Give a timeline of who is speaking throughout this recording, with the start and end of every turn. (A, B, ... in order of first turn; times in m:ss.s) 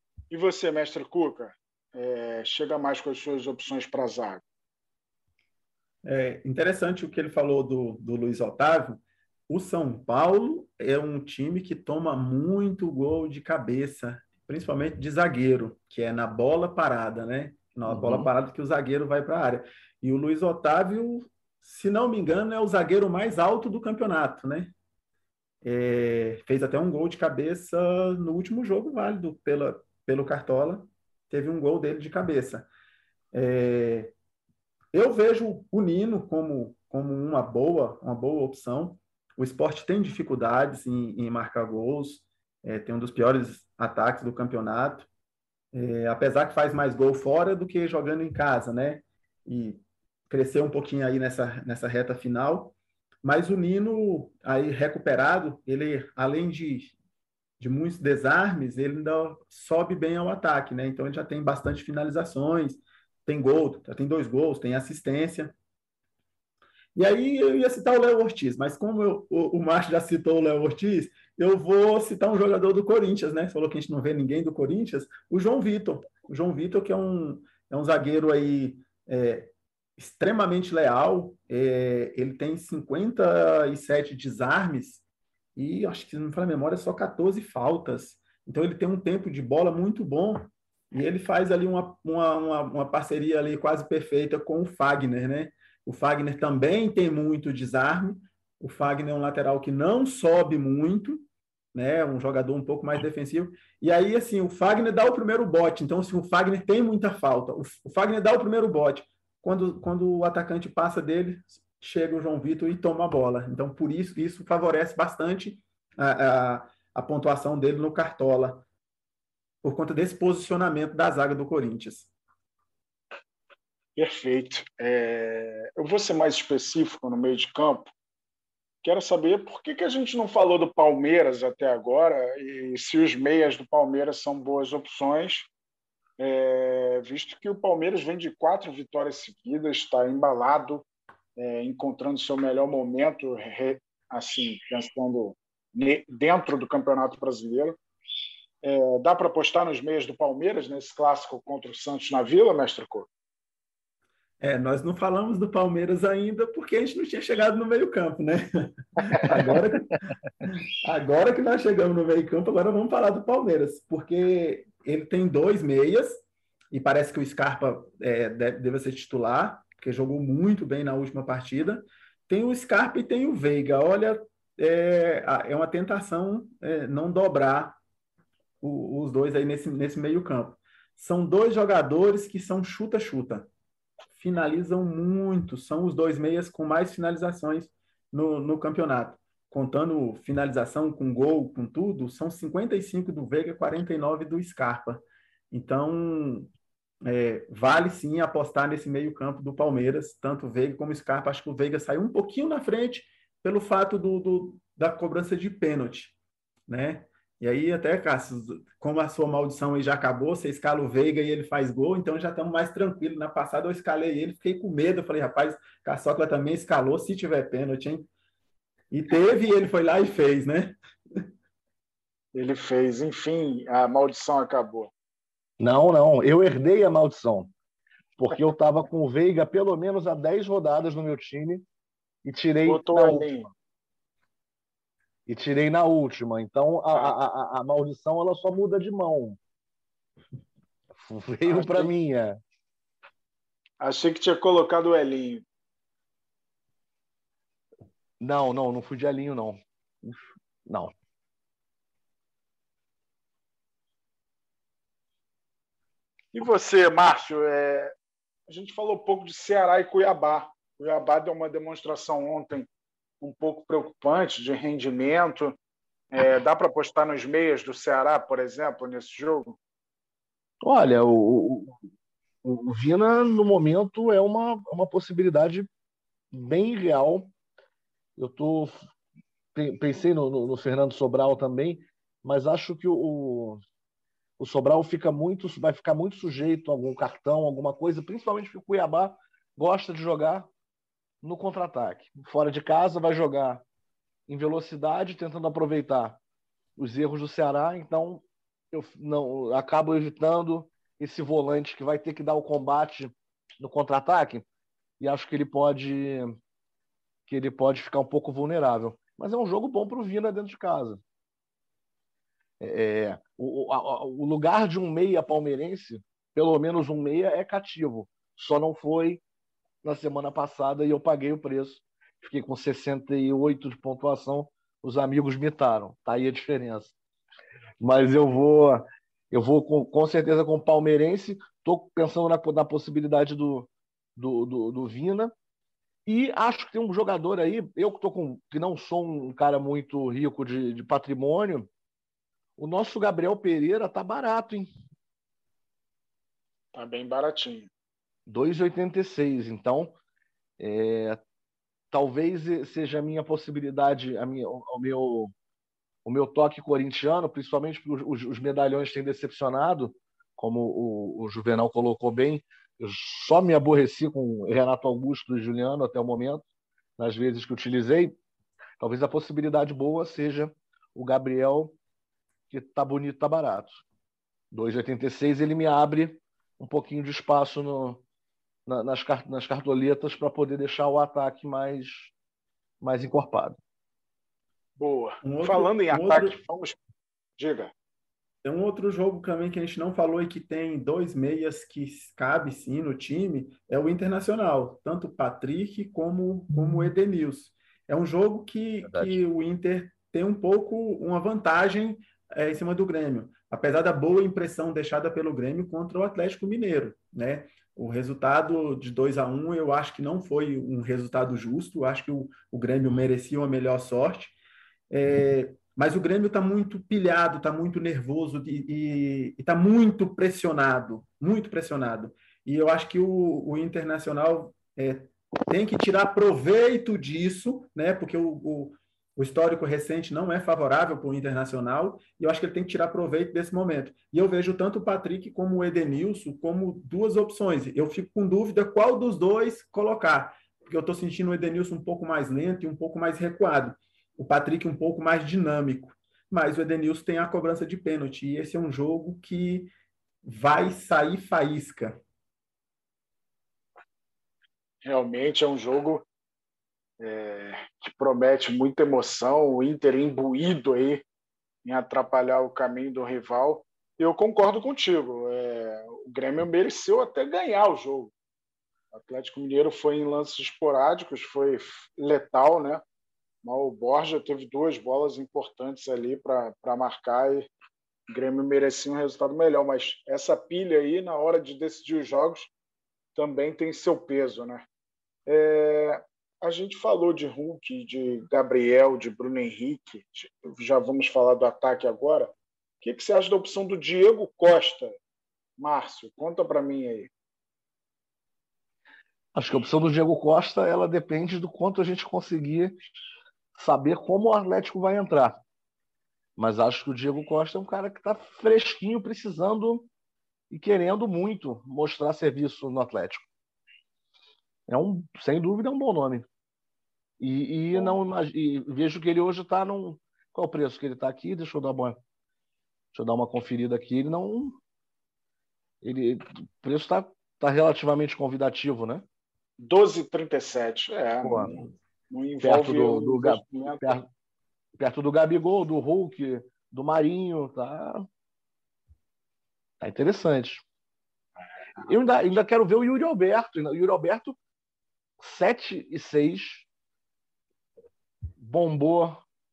0:00.3-0:04.4 A
0:06.0-0:24.7 B
0:17.9-0:18.3 C
0:25.6-0:32.7 B
0:33.3-0:34.1 B
0:34.9-0:45.1 B
0:45.7-0:56.9 B
0:57.6-1:05.6 B
1:07.0-1:25.0 B
1:25.6-1:58.6 B
1:59.6-2:02.1 B
2:04.0-2:07.9 A
2:08.8-2:15.5 A
2:16.2-2:20.8 A
2:21.4-2:27.8 A
2:28.6-2:33.1 A
2:34.4-2:39.9 B
2:40.4-2:57.8 B
2:58.6-3:03.5 B
3:04.1-3:16.5 B
3:17.0-3:26.2 B
3:26.7-3:38.1 B
3:38.9-3:40.8 B
3:42.3-3:44.9 A
3:45.6-3:47.5 C
3:48.2-3:51.6 C
3:52.2-3:53.3 C
3:52.6-3:53.5 A
3:55.3-3:59.4 C
4:01.0-4:02.4 C
4:01.5-4:01.9 A
4:03.8-4:05.4 A
4:08.2-4:10.9 C
4:16.3-4:17.9 A
4:18.5-4:22.7 A
4:23.2-4:25.6 A
4:26.1-4:29.6 A
4:30.6-4:31.8 C
4:32.4-4:35.7 C
4:36.3-4:37.3 C
4:38.2-4:38.9 C
4:39.5-4:43.6 C
4:44.4-4:50.5 C
4:51.2-4:53.6 C
4:54.3-4:56.2 C
4:56.8-5:04.5 C
5:05.0-5:06.4 C
5:07.3-5:11.0 C
5:12.6-5:19.2 C
5:19.8-5:26.9 C
5:27.8-5:35.3 C
5:36.1-5:41.7 C
5:42.6-5:44.7 C
5:46.7-5:47.7 A
5:48.3-5:50.0 C
5:50.6-5:51.2 C
5:51.9-5:55.3 C
5:56.0-6:06.4 C
6:07.0-6:08.2 C
6:08.8-6:11.8 C
6:12.5-6:13.8 C
6:14.5-6:18.0 C
6:18.7-6:22.1 C
6:22.8-6:23.6 C
6:24.8-6:26.8 A
6:25.2-6:26.4 B
6:27.4-6:27.7 A
6:28.4-6:54.4 B
6:38.8-6:39.2 C
6:54.9-7:29.7 B
7:30.2-7:32.0 B
7:34.8-7:36.1 A
7:37.0-7:41.0 A
7:41.6-7:48.1 A
7:48.9-7:52.8 A
7:53.4-7:57.5 A
7:58.1-8:02.5 A
8:03.2-8:04.6 A
8:05.3-8:15.0 A
8:15.6-8:17.1 A
8:19.4-8:22.8 C
8:23.6-8:25.4 C
8:26.4-8:29.9 C
8:30.5-8:33.3 C
8:34.7-8:36.3 C
8:37.2-8:42.0 C
8:42.9-8:44.6 C
8:45.8-8:49.0 C
8:49.6-8:54.0 A
8:51.2-8:51.5 C
8:52.4-8:54.1 C
8:54.8-8:58.0 C
8:59.8-9:00.6 C
9:01.8-9:04.4 C
9:05.2-9:06.7 C
9:08.4-9:09.2 C